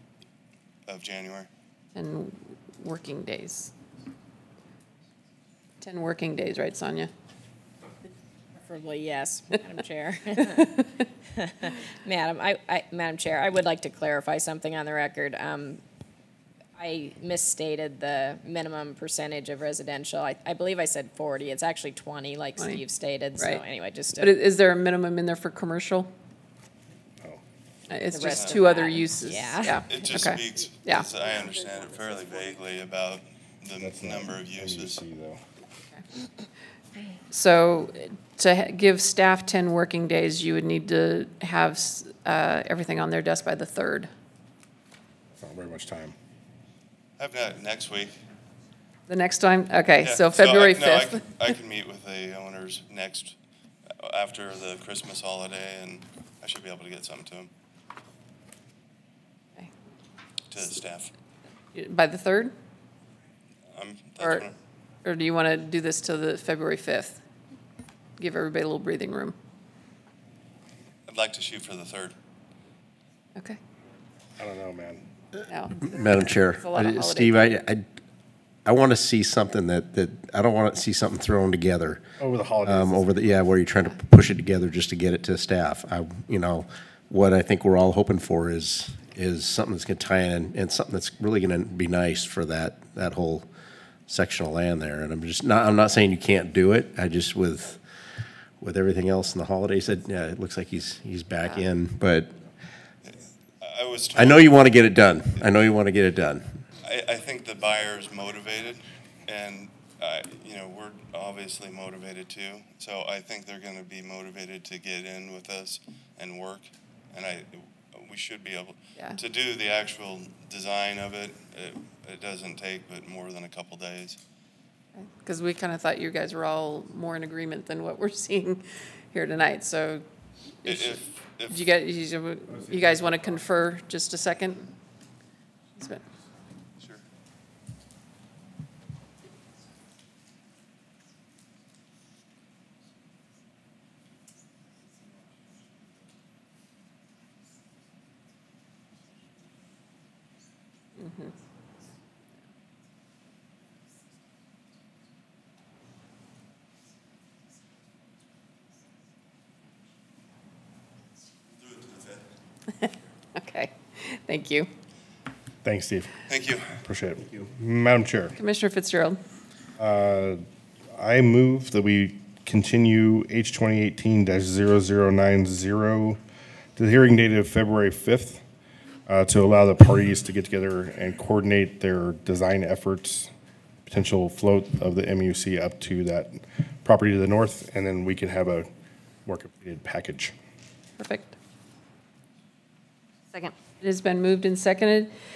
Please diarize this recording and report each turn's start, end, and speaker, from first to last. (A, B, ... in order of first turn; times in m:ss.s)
0:00.9-0:01.5 A
0:01.9-0:03.7 B
0:05.8-0:07.1 B
0:08.6-0:10.8 C
0:11.3-0:15.8 C
0:16.8-0:24.3 C
0:23.4-0:23.6 B
0:24.2-0:26.1 B
0:27.9-0:31.1 B
0:28.1-0:29.9 C
0:28.2-0:28.6 A
0:29.8-0:35.0 A
0:33.8-0:35.4 D
0:37.3-0:44.1 B
0:45.4-0:46.1 D
0:47.2-0:48.2 A
0:49.1-0:51.2 B
0:50.0-0:53.4 A
0:54.0-0:57.5 A
1:00.5-1:01.1 A
1:01.7-1:02.5 B
1:03.7-1:04.6 A
1:04.2-1:04.4 B
1:05.0-1:07.2 B
1:08.2-1:09.4 B
1:11.1-1:12.1 A
1:14.4-1:15.0 D
1:15.5-1:17.4 B
1:15.8-1:17.8 E
1:18.6-1:22.1 E
1:22.2-1:23.3 D
1:22.6-1:33.4 E
1:34.1-1:37.8 E
1:38.6-1:42.3 E
1:43.0-1:45.5 A
1:44.1-1:46.6 E
1:46.8-2:04.2 A
2:05.0-2:10.0 B
2:10.6-2:10.9 B
2:10.6-2:11.6 A
2:11.5-2:14.7 B
2:12.5-2:13.3 D
2:15.8-2:16.0 B
2:31.0-2:31.3 B
2:41.8-2:42.0 A
2:42.8-2:44.7 B
2:45.6-2:48.4 D
2:46.3-2:46.8 A
2:48.4-2:49.2 B
2:49.8-2:56.2 D
2:56.8-2:58.4 D
2:59.1-3:03.3 D
3:03.8-3:08.7 D
3:09.2-3:10.3 D
3:11.0-3:11.4 B
3:13.3-3:15.1 B